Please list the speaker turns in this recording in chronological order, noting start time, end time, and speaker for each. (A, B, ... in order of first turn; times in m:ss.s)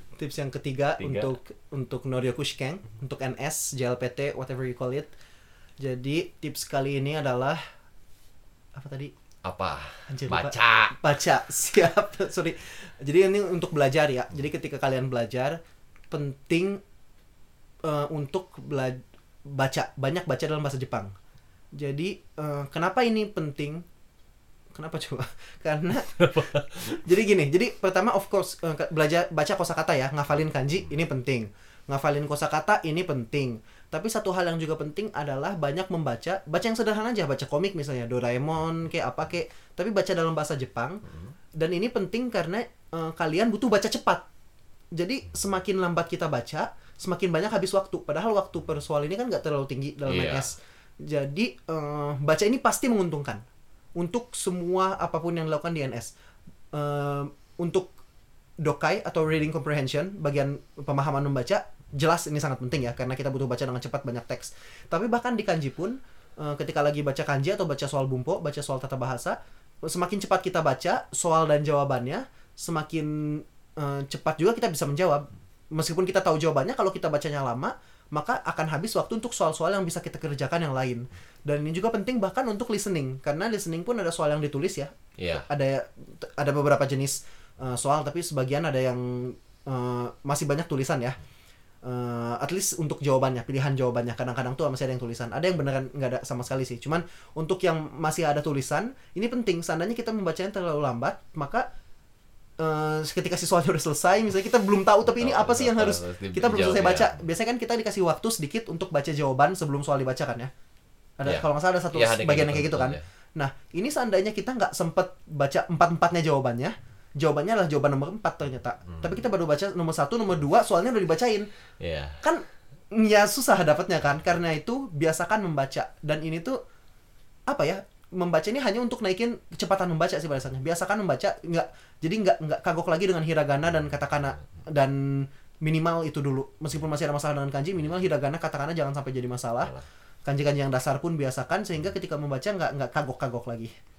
0:00.2-0:05.1 A
0:01.0-0:01.3 B
0:05.8-0:07.6 A
0:08.7-0:09.1 A
0:09.4-0:11.0 B
0:10.1-0:15.6 A
0:16.1-0:16.8 A
0:17.8-0:21.1 A
0:21.7-0:23.8 A
0:24.7-0:41.0 A
0:26.2-0:26.6 B
0:41.6-0:44.2 A
0:44.9-0:53.4 A
0:50.0-0:50.5 B
0:54.0-0:56.1 A
0:56.7-0:57.9 A
0:58.6-1:31.2 A
1:25.2-1:25.5 B
1:31.8-1:41.6 A
1:42.6-1:50.5 A
1:45.0-1:47.2 B
1:51.2-2:01.5 A
1:51.2-1:53.0 B
2:01.8-2:02.2 B
2:02.2-2:06.6 A
2:07.5-2:19.7 A
2:20.2-2:23.7 A